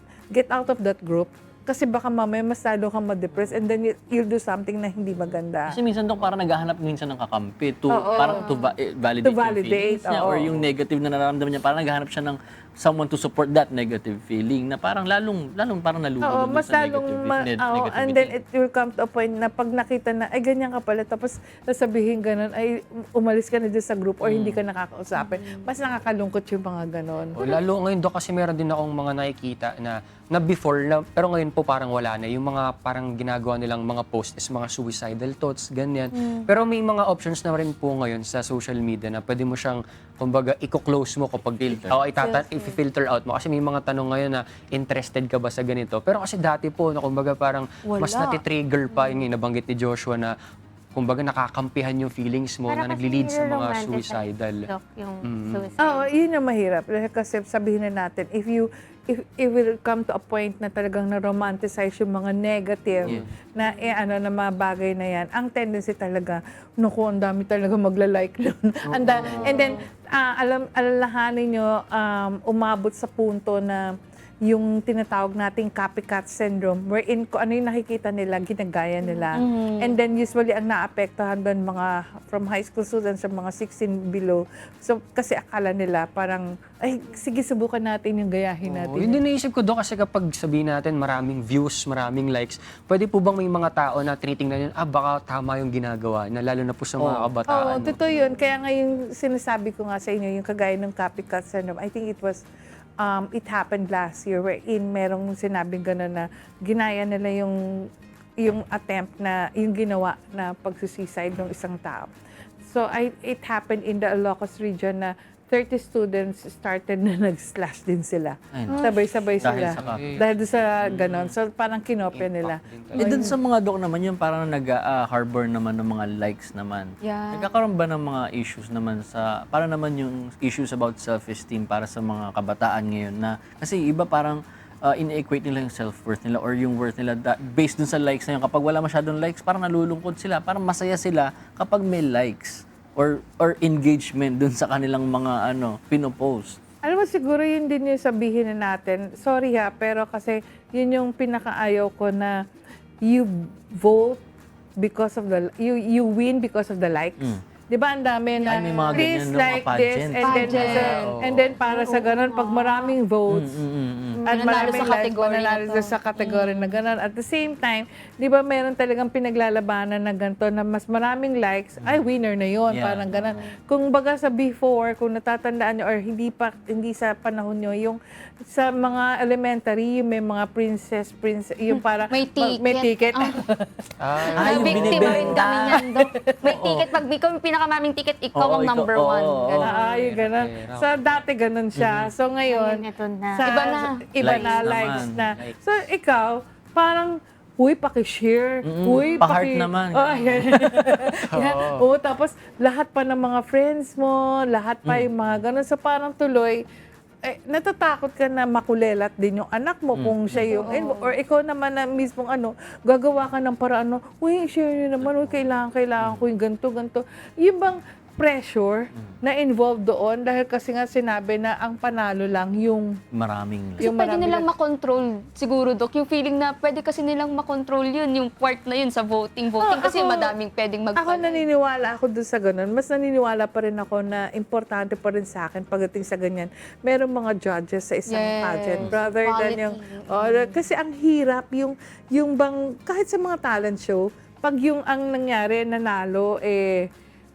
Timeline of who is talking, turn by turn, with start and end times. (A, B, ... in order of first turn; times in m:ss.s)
0:00.3-0:05.8 A
0:03.3-0:03.6 B
0:05.7-0:18.3 B
0:07.9-0:08.5 A
0:08.1-0:08.7 C
0:09.2-0:10.7 A
0:16.2-0:27.4 A
0:24.2-0:24.6 B
0:25.2-0:25.6 C
0:27.4-0:50.4 D
0:36.2-0:36.5 C
0:41.6-0:42.1 B
0:42.2-0:42.8 C
0:47.8-0:49.2 C
0:50.9-0:54.6 D
0:52.7-0:56.1 E
0:55.2-0:55.6 D
0:55.8-1:13.8 A
1:08.9-1:09.7 D
1:09.2-1:09.8 C
1:14.5-1:29.2 A
1:19.3-1:19.9 C
1:28.7-1:38.0 D
1:37.0-1:37.3 B
1:37.5-1:42.4 A
1:43.0-1:47.6 A
1:48.4-1:52.1 A
1:52.7-2:03.4 A
1:58.5-2:01.4 B
1:59.5-2:00.2 D
2:02.1-2:03.2 D
2:03.0-2:26.6 B
2:07.0-2:07.5 C
2:26.8-2:32.3 A
2:33.1-2:34.2 A
2:34.8-2:43.6 A
2:38.4-2:39.1 C
2:38.5-2:40.8 B
2:40.2-2:41.2 C
2:40.7-2:41.5 D
2:41.6-2:42.9 E
2:43.3-2:44.4 B
2:44.2-2:46.8 C
2:44.3-2:44.9 E
2:44.3-3:05.0 A
2:51.8-2:52.0 B
2:52.7-2:53.4 B
3:01.7-3:03.4 C
3:04.0-3:05.5 D
3:04.4-3:05.8 B
3:04.4-3:09.8 C
3:05.7-3:06.6 A
3:06.4-3:06.9 B
3:08.4-3:09.7 B
3:09.6-3:12.8 A
3:09.6-3:11.2 D
3:11.8-3:12.1 B
3:12.5-3:13.4 E
3:13.4-3:26.6 A
3:13.5-3:14.7 C
3:14.2-3:15.4 B
3:18.7-3:21.1 B
3:21.3-3:21.8 D
3:27.2-3:42.9 A
3:30.0-3:30.7 B
3:30.5-3:31.1 C
3:35.0-3:36.3 B
3:43.1-3:43.9 B
3:43.8-3:51.4 C
3:43.8-3:44.5 A
3:49.6-3:50.4 A
3:51.0-4:06.8 A
3:58.1-4:00.6 C